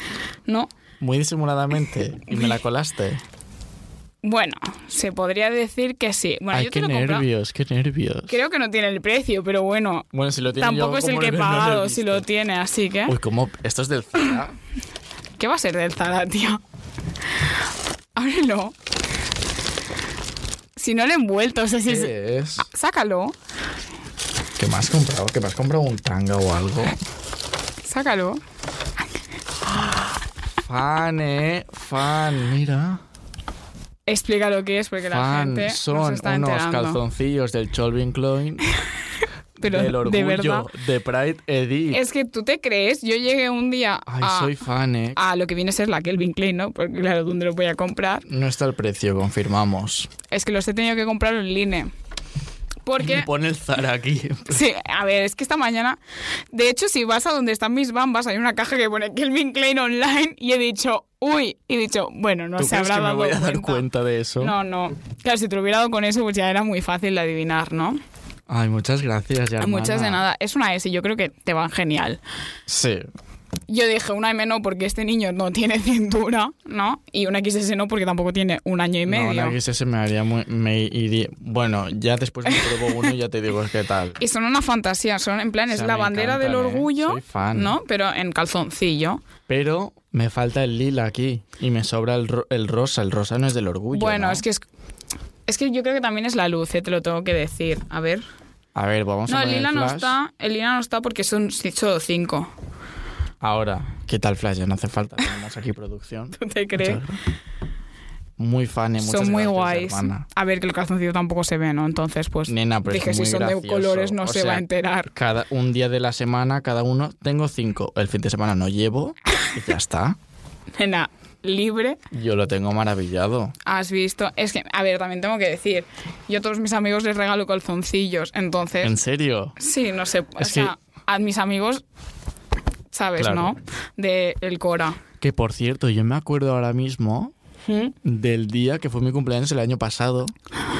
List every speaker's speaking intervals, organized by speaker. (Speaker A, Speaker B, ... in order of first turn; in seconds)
Speaker A: 0.5-0.7, 4.2-7.3, 8.3-13.2, 15.4-16.6, 18.1-18.7, 20.8-23.3, 27.8-28.4, 34.1-37.0, 39.6-40.7, 41.9-44.5, 45.1-48.2, 50.3-51.9, 52.8-53.3, 54.5-56.0, 56.5-63.8, 64.4-68.0, 69.6-72.2, 73.7-79.6, 82.5-83.1, 84.2-89.2, 93.9-94.6, 95.5-98.2, 99.3-102.5, 106.4-107.0, 109.0-115.1, 120.8-122.0, 123.6-128.9, 129.6-131.8, 132.9-135.0, 137.7-137.9
Speaker B: 1.0-3.2, 6.5-8.3, 10.1-12.2, 13.1-14.6, 21.8-22.7, 24.6-27.0, 30.6-33.0, 35.1-38.6, 39.6-42.0, 44.1-45.2, 48.3-50.1, 53.0-54.6, 62.6-64.5, 68.5-70.2, 72.7-73.1, 79.1-84.2, 85.7-87.8, 89.5-94.4, 98.7-100.1, 103.4-107.2, 108.4-110.2, 112.5-120.2, 122.1-123.5, 128.8-129.6, 130.4-130.7, 133.2-133.5, 135.2-137.3, 138.0-140.3